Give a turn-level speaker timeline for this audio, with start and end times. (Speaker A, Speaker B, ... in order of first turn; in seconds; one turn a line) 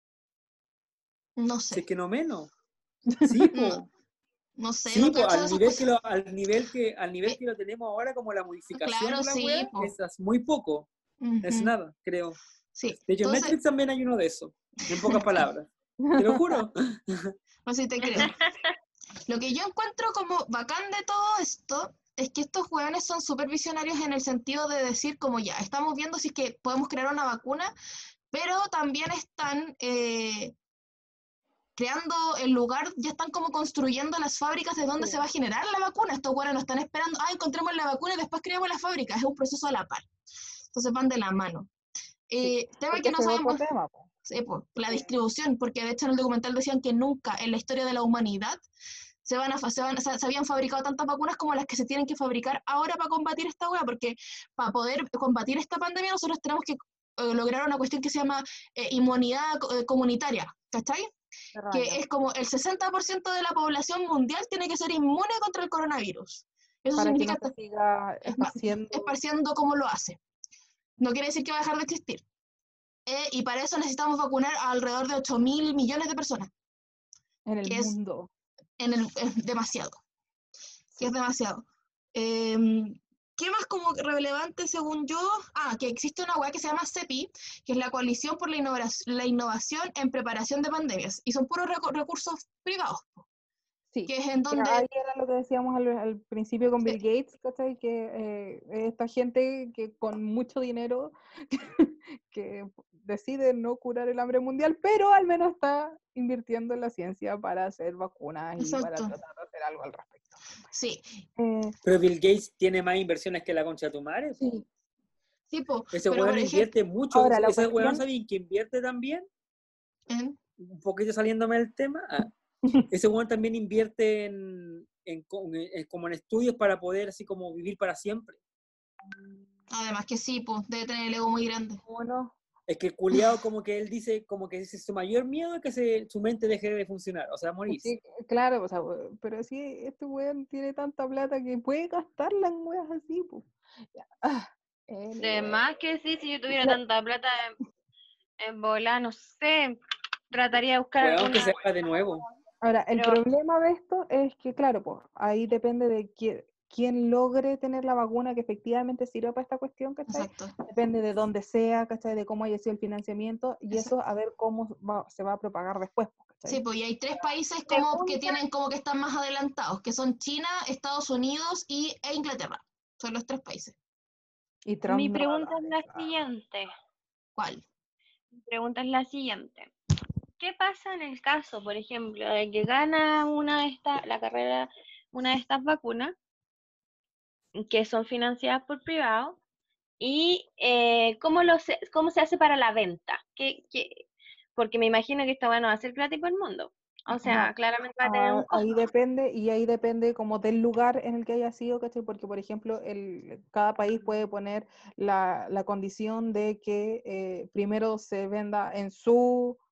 Speaker A: 1.4-1.8
Speaker B: 1.7-2.5
Speaker C: 3.1-3.5
Speaker B: 3.2-3.9
Speaker A: 3.5-3.8
Speaker A: 4.6-5.9
Speaker B: 4.9-10.9
Speaker A: 8.7-9.9
Speaker A: 11.2-11.7
Speaker B: 11.4-12.4
Speaker A: 12.7-13.6
Speaker B: 13.0-17.3
Speaker C: 16.0-16.6
Speaker A: 17.6-18.4
Speaker D: 18.3-18.7
Speaker A: 19.3-27.7
Speaker A: 28.3-30.5
Speaker A: 31.8-40.1
Speaker A: 40.7-41.7
Speaker A: 42.3-43.6
Speaker C: 42.4-44.1
Speaker A: 44.3-48.6
Speaker A: 49.2-61.1
Speaker C: 61.5-62.0
Speaker A: 61.7-67.5
Speaker C: 67.0-69.1
Speaker A: 68.2-70.2
Speaker A: 71.0-72.2
Speaker A: 73.1-76.5
Speaker C: 77.5-78.3
Speaker A: 77.6-77.9
Speaker A: 78.8-80.0
Speaker A: 81.0-93.2
Speaker C: 93.9-110.3
Speaker A: 94.1-94.8
Speaker A: 108.6-109.1
Speaker A: 110.7-111.2
Speaker C: 111.3-111.7
Speaker B: 111.8-114.4
Speaker C: 114.4-114.6
Speaker A: 115.5-116.7
Speaker B: 115.9-119.2
Speaker C: 117.1-118.0
Speaker A: 120.1-120.3
Speaker B: 120.6-122.3
Speaker B: 122.9-128.4
Speaker A: 129.7-131.8
Speaker C: 131.8-132.3
Speaker B: 132.7-137.9
Speaker C: 137.7-145.6
Speaker D: 145.2-147.6
Speaker C: 146.5-146.8
Speaker D: 148.4-149.8
Speaker D: 150.3-152.3
Speaker B: 151.0-152.2
Speaker C: 152.6-166.6
Speaker D: 152.9-153.2
Speaker A: 160.1-160.5
Speaker A: 166.4-173.8
Speaker C: 167.1-168.4
Speaker C: 174.6-176.1
Speaker D: 174.9-176.7
Speaker A: 177.3-177.6
Speaker D: 178.3-179.7
Speaker D: 180.4-186.1
Speaker D: 187.6-189.4
Speaker D: 190.0-194.0
Speaker D: 194.6-198.7
Speaker C: 197.1-209.6